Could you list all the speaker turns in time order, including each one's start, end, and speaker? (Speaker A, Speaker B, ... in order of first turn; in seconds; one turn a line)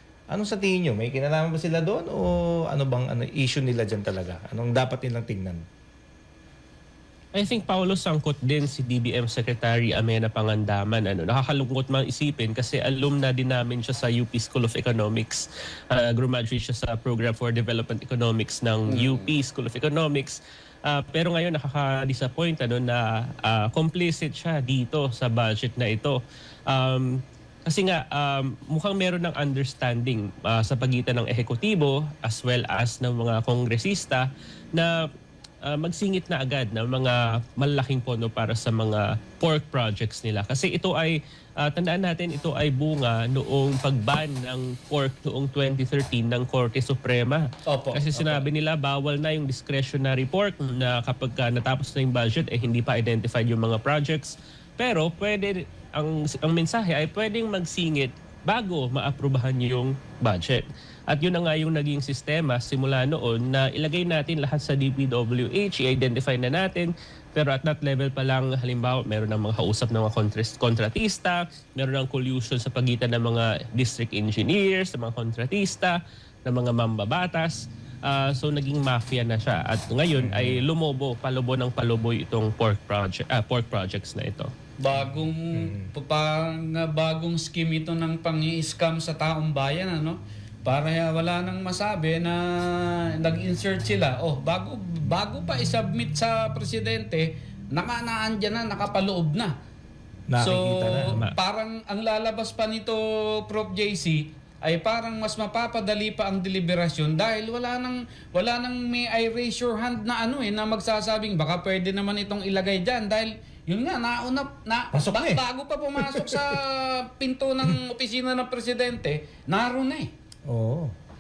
Speaker A: 0.3-5.6
Speaker B: 7.3-26.2
Speaker C: 18.9-19.3
Speaker B: 26.7-27.1
Speaker B: 27.7-35.0
Speaker B: 35.6-84.5
Speaker C: 47.7-48.5
Speaker A: 80.2-80.6
Speaker C: 84.8-99.5
Speaker A: 84.9-85.9
Speaker A: 100.3-101.2
Speaker C: 100.4-120.1
Speaker A: 114.9-115.4
Speaker A: 116.0-116.4
Speaker A: 120.5-120.9